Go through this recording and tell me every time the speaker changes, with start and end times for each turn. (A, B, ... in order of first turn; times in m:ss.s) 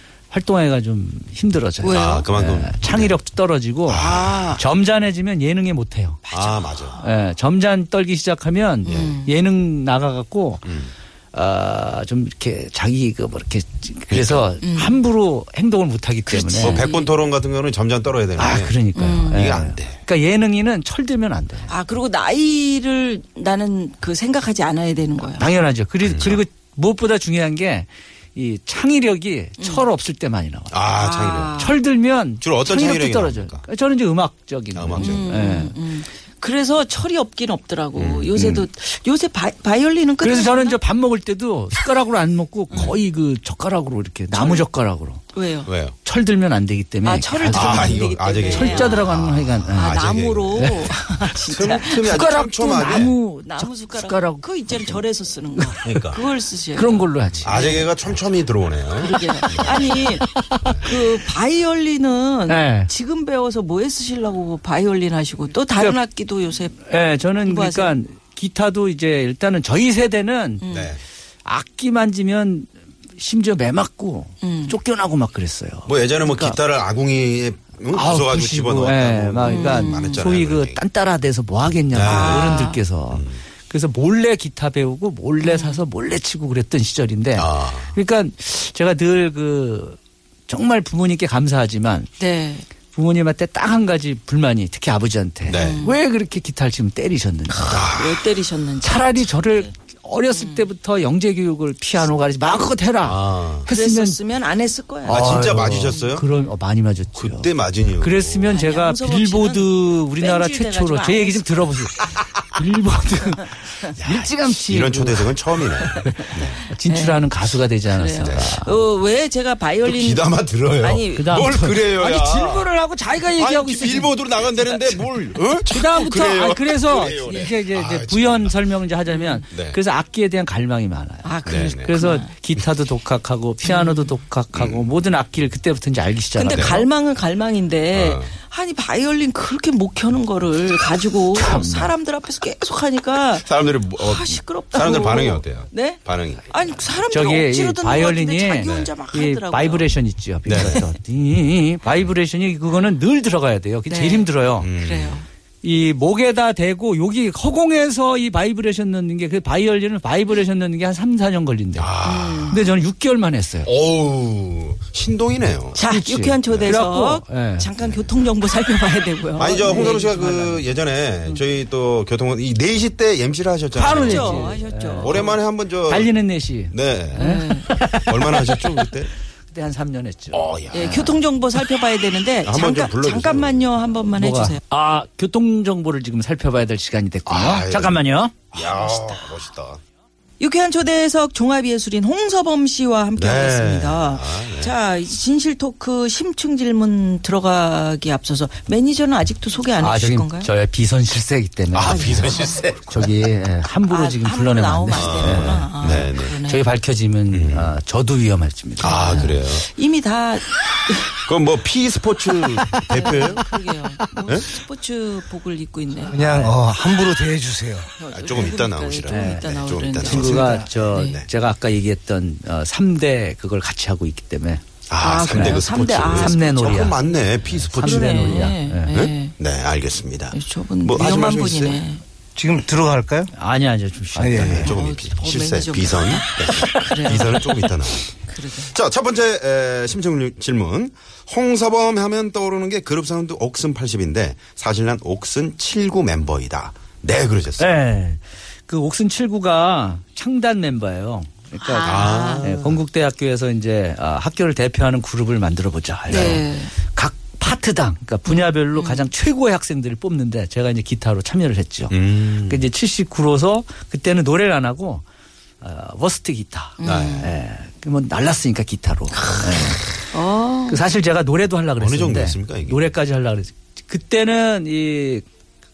0:00.3-0:06.2 A
0:01.8-0:02.3 B
0:01.9-0:03.2 C
0:03.9-0:04.6 C
0:06.3-0:07.1 B
0:06.3-0:07.0 C
0:07.0-0:10.7 A
0:08.8-0:09.4 B
0:08.8-0:09.1 C
0:10.6-0:10.9 C
0:11.3-0:16.9 A
0:14.1-0:14.5 C
0:14.6-0:15.0 B
0:16.3-0:17.1 B
0:16.6-0:18.8 C
0:18.4-0:21.7 A
0:19.0-0:19.6 B
0:19.3-0:20.0 C
0:21.7-0:25.5 B
0:25.3-0:30.7 A
0:26.0-0:26.4 C
0:29.6-0:29.9 B
0:30.7-0:31.6 C
0:30.9-0:31.8 B
0:31.6-0:35.8 A
0:32.4-0:33.7 C
0:34.8-0:35.2 C
0:35.0-0:40.8 B
0:38.0-0:38.6 C
0:40.2-0:45.2 A
0:42.7-0:43.0 B
0:44.3-0:44.7 B
0:45.3-0:45.7 B
0:45.7-0:46.0 C
0:46.0-0:50.0 A
0:47.0-0:52.3 B
0:47.5-0:50.9 C
0:50.6-0:50.9 A
0:51.5-0:53.1 C
0:51.8-0:55.0 A
0:52.9-0:58.0 B
0:55.6-0:56.0 A
0:55.8-0:56.2 C
0:56.7-0:57.8 A
0:57.4-1:00.1 C
0:58.9-1:06.8 B
1:00.3-1:01.0 A
1:02.5-1:02.9 A
1:06.9-1:10.7 A
1:07.4-1:08.0 B
1:10.6-1:11.0 B
1:10.7-1:11.0 C
1:11.4-1:16.6 A
1:14.4-1:14.8 B
1:15.9-1:20.8 C
1:17.9-1:32.1 A
1:19.4-1:20.3 B
1:21.9-1:23.4 C
1:22.0-1:22.8 B
1:25.4-1:25.8 B
1:27.4-1:27.9 C
1:32.2-1:32.7 B
1:32.9-1:37.9 A
1:35.5-1:36.0 B
1:35.5-1:35.8 C
1:37.5-1:39.7 B
1:37.7-1:38.1 C
1:38.8-1:44.2 A
1:40.3-1:40.7 B
1:43.0-1:43.7 C
1:43.7-1:46.1 B
1:45.0-1:47.5 A
1:45.1-1:46.2 C
1:47.2-1:48.5 C
1:48.0-1:55.4 A
1:48.5-1:51.7 B
1:54.0-1:56.6 C
1:55.9-1:58.7 A
1:56.8-2:01.6 B
1:58.3-1:58.6 C
1:59.8-2:02.7 C
2:01.1-2:05.1 A
2:03.3-2:08.7 C
2:05.7-2:16.9 A
2:07.1-2:07.5 B
2:09.1-2:09.4 B
2:09.5-2:09.8 C
2:11.2-2:12.3 B
2:11.5-2:11.9 C
2:13.6-2:14.1 B
2:14.5-2:14.9 C
2:16.4-2:29.9 B
2:16.5-2:16.8 C
2:17.9-2:18.3 C
2:21.3-2:21.9 A
2:23.4-2:26.5 C
2:27.1-2:34.7 A
2:30.5-2:30.8 C
2:30.5-2:30.9 B
2:33.9-2:35.3 B
2:34.6-2:35.2 C
2:35.6-2:41.9 A
2:41.8-2:42.6 C
2:42.0-2:42.7 B
2:42.5-2:43.7 A
2:43.6-2:45.8 C
2:45.7-2:50.7 B
2:45.9-2:47.7 A
2:46.5-2:46.7 C
2:49.4-2:56.1 C
2:49.6-2:50.0 A
2:53.7-2:58.8 A
2:53.8-2:55.4 B
2:56.7-2:59.1 C
2:57.2-2:57.7 B
2:59.5-3:01.2 A
3:00.3-3:01.0 C
3:00.7-3:04.6 B
3:02.4-3:03.8 C
3:04.2-3:08.4 A
3:07.3-3:09.8 C
3:08.6-3:09.2 B
3:10.4-3:20.5 B
3:13.2-3:14.7 C
3:19.8-3:29.3 A
3:21.7-3:23.1 C
3:21.8-3:23.1 B
3:23.9-3:26.7 B
3:24.9-3:26.3 C
3:27.3-3:27.7 C
3:28.8-3:29.7 C
3:28.8-3:31.1 B
3:31.2-3:33.4 C
3:32.6-3:36.5 B
3:34.2-3:34.5 C
3:36.1-3:37.9 D
3:36.1-3:36.6 A
3:38.0-3:41.2 B
3:38.1-3:40.6 C
3:39.1-3:44.6 A
3:40.3-3:40.7 D
3:44.9-3:51.8 C
3:45.0-3:47.2 B
3:45.3-3:48.9 A
3:47.8-3:49.4 B
3:50.3-3:52.0 B
3:52.4-3:53.3 D
3:53.3-3:54.8 A
3:54.2-3:54.6 D
3:54.3-3:58.1 C
3:54.6-3:57.7 B
3:58.2-3:58.7 B
3:58.7-4:07.7 C
4:07.6-4:25.0 A
4:11.5-4:12.5 B
4:11.8-4:12.8 C
4:16.1-4:16.7 B
4:16.1-4:16.4 C
4:18.3-4:19.1 B
4:21.9-4:22.7 C
4:25.6-4:30.1 A
4:26.8-4:27.3 B
4:26.8-4:27.3 C
4:29.1-4:30.8 B
4:30.7-4:35.2 A
4:31.8-4:32.9 C